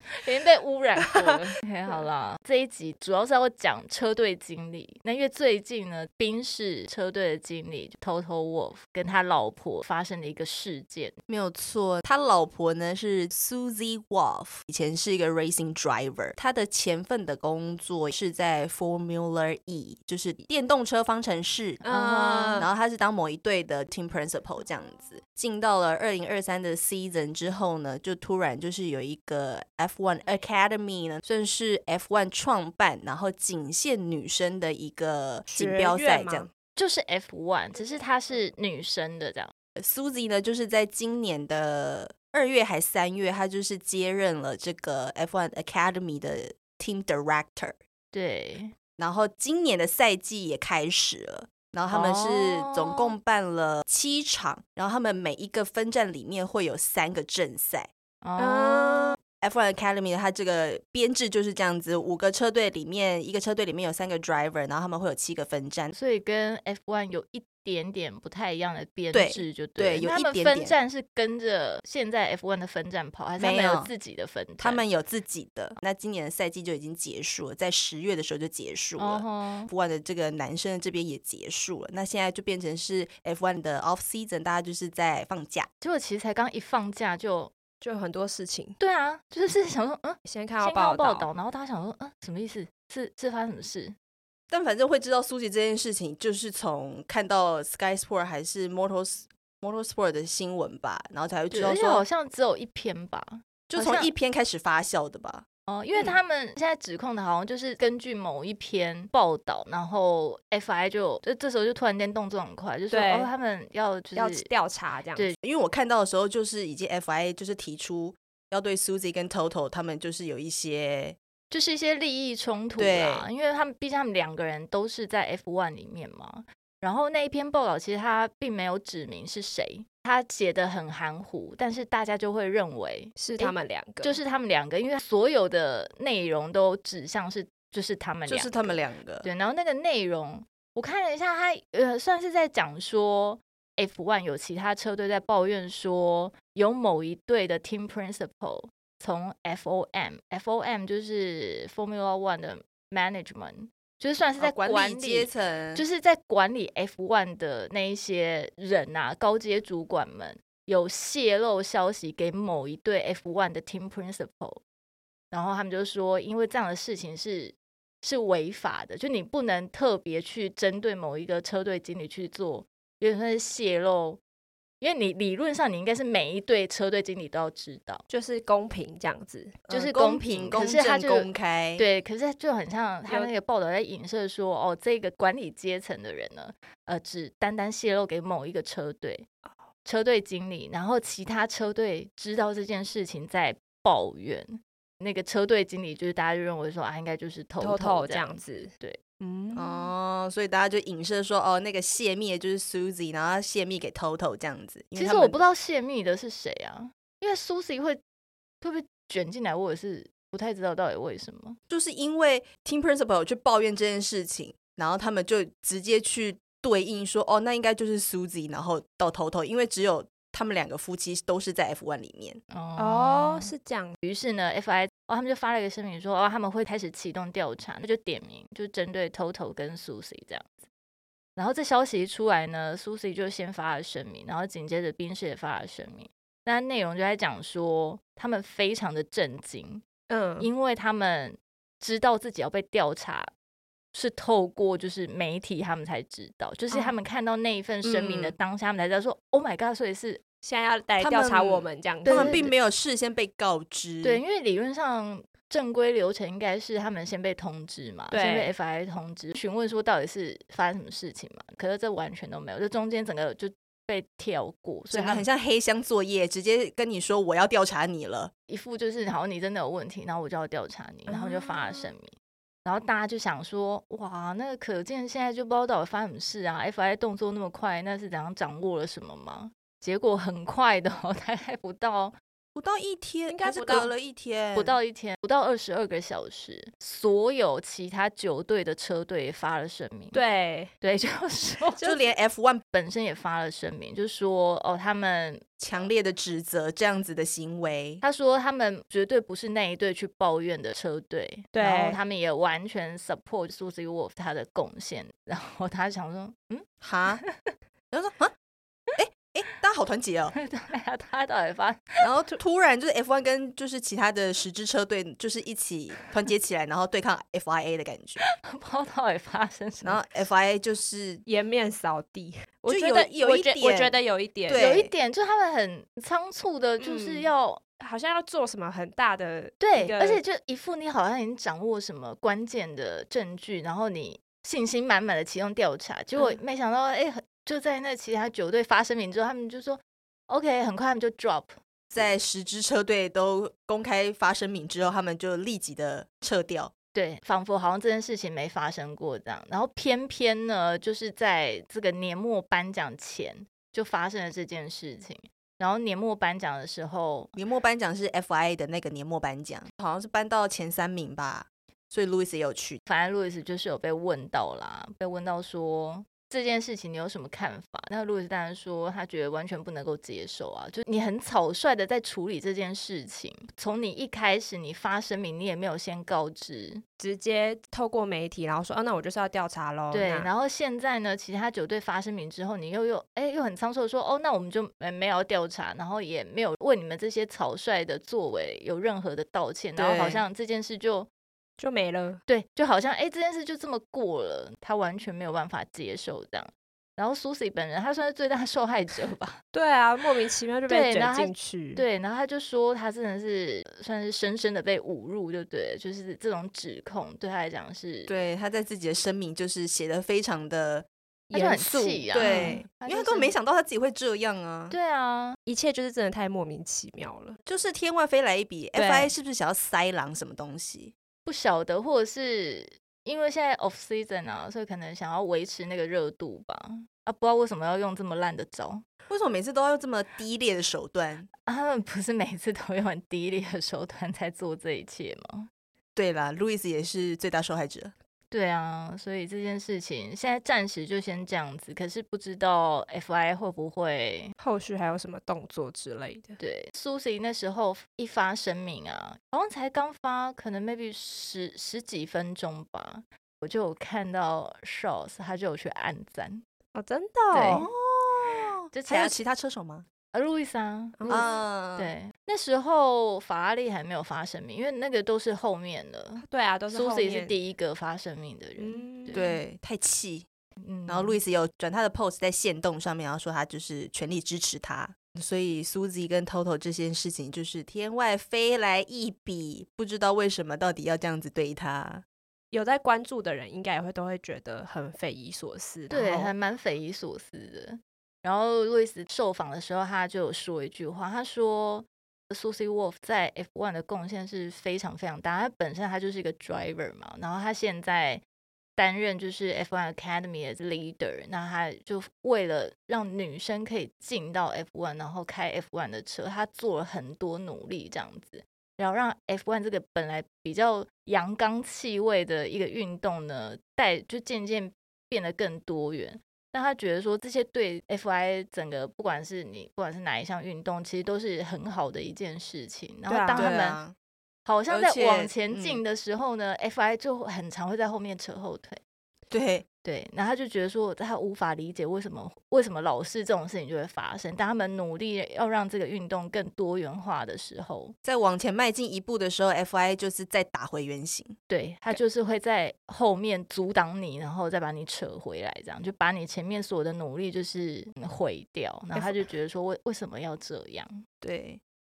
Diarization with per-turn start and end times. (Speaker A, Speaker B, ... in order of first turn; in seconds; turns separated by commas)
Speaker A: 0.2-11.2, Speaker B: 11.3-21.9, Speaker C: 21.8-22.7, Speaker A: 21.9-22.7, Speaker B: 22.6-36.5, Speaker C: 35.5-36.5, Speaker A: 36.8-39.5, Speaker B: 39.8-47.8, Speaker A: 48.1-48.8, Speaker B: 49.0-57.9, Speaker A: 51.9-53.1, Speaker A: 58.2-59.2, Speaker C: 58.4-59.2, Speaker B: 59.4-65.9, Speaker A: 65.9-74.8, Speaker B: 69.1-70.8, Speaker B: 73.4-73.9, Speaker B: 74.6-85.7, Speaker A: 79.0-79.7, Speaker A: 85.8-87.5, Speaker C: 87.8-88.8, Speaker A: 88.8-94.0, Speaker C: 90.3-91.3, Speaker B: 94.5-102.0, Speaker A: 101.5-104.1, Speaker B: 103.7-105.5, Speaker A: 105.7-114.5, Speaker C: 112.9-113.3, Speaker C: 114.2-115.3, Speaker B: 115.4-121.2, Speaker A: 121.5-164.6, Speaker B: 122.8-123.3, Speaker C: 133.2-134.2, Speaker B: 138.3-139.3, Speaker B: 154.4-155.9, Speaker A: 165.3-174.2, Speaker A: 174.8-178.0, Speaker C: 178.1-179.6, Speaker B: 179.7-181.9, Speaker A: 179.7-189.3, Speaker C: 183.1-183.3, Speaker A: 189.8-199.0, Speaker C: 197.6-199.9, Speaker B: 199.6-205.4, Speaker A: 205.0-208.0, Speaker A: 208.6-211.6, Speaker B: 211.7-222.4, Speaker A: 222.5-223.5, Speaker C: 222.8-223.9, Speaker A: 224.0-230.6, Speaker A: 231.4-239.8, Speaker C: 240.1-240.5, Speaker A: 240.4-243.3, Speaker A: 243.9-250.2, Speaker C: 246.7-247.0, Speaker C: 247.8-248.2, Speaker C: 250.4-252.5, Speaker B: 251.0-254.2, Speaker A: 252.1-252.5, Speaker A: 254.0-265.3, Speaker C: 258.1-258.5, Speaker B: 264.9-268.3, Speaker A: 268.5-282.1, Speaker B: 271.1-271.6, Speaker B: 282.6-284.8, Speaker C: 283.3-283.9, Speaker A: 284.5-290.2, Speaker C: 290.1-290.7, Speaker A: 290.8-291.8, Speaker B: 291.8-292.6, Speaker A: 292.7-295.6, Speaker B: 295.6-298.0, Speaker A: 298.0-306.7, Speaker C: 301.5-302.0, Speaker B: 306.8-307.2, Speaker A: 307.2-307.5, Speaker B: 307.9-308.3, Speaker B: 309.0-310.4, Speaker A: 310.4-312.0, Speaker B: 312.0-318.2, Speaker A: 318.4-320.1, Speaker B: 319.8-321.2, Speaker C: 321.3-324.7, Speaker B: 322.7-324.9, Speaker A: 324.6-327.6, Speaker C: 326.8-330.2, Speaker A: 329.6-341.5, Speaker B: 341.9-346.7, Speaker A: 346.9-357.3, Speaker B: 357.4-362.8, Speaker A: 362.9-376.8, Speaker C: 377.0-380.3, Speaker A: 379.9-391.1, Speaker B: 389.8-390.2, Speaker C: 391.6-392.2, Speaker A: 392.3-399.4, Speaker C: 399.5-401.9, Speaker A: 400.7-408.3, Speaker B: 408.1-414.8, Speaker A: 411.3-413.4, Speaker C: 412.1-412.6, Speaker A: 414.7-415.4, Speaker C: 415.5-417.4, Speaker B: 417.5-420.9, Speaker C: 418.8-419.1, Speaker A: 421.2-428.8, Speaker B: 429.1-431.3, Speaker A: 431.5-435.5, Speaker B: 435.9-437.9, Speaker A: 438.3-444.3, Speaker C: 444.4-446.4, Speaker A: 446.4-456.4, Speaker C: 456.8-457.7, Speaker A: 457.3-457.7, Speaker B: 457.4-459.9, Speaker A: 458.3-459.3, Speaker A: 460.1-469.3, Speaker C: 461.0-461.4, Speaker B: 461.1-461.9, Speaker C: 466.2-467.4, Speaker C: 468.6-469.4, Speaker B: 469.1-470.3, Speaker A: 470.6-471.2, Speaker B: 470.9-482.1, Speaker C: 482.5-486.3, Speaker A: 485.9-498.2, Speaker A: 498.8-523.8, Speaker C: 523.1-523.6, Speaker B: 523.3-524.0, Speaker A: 524.5-528.8, Speaker B: 524.7-525.8, Speaker B: 529.3-529.7, Speaker A: 529.8-537.9, Speaker B: 538.0-541.4, Speaker A: 541.5-551.0, Speaker B: 551.2-551.6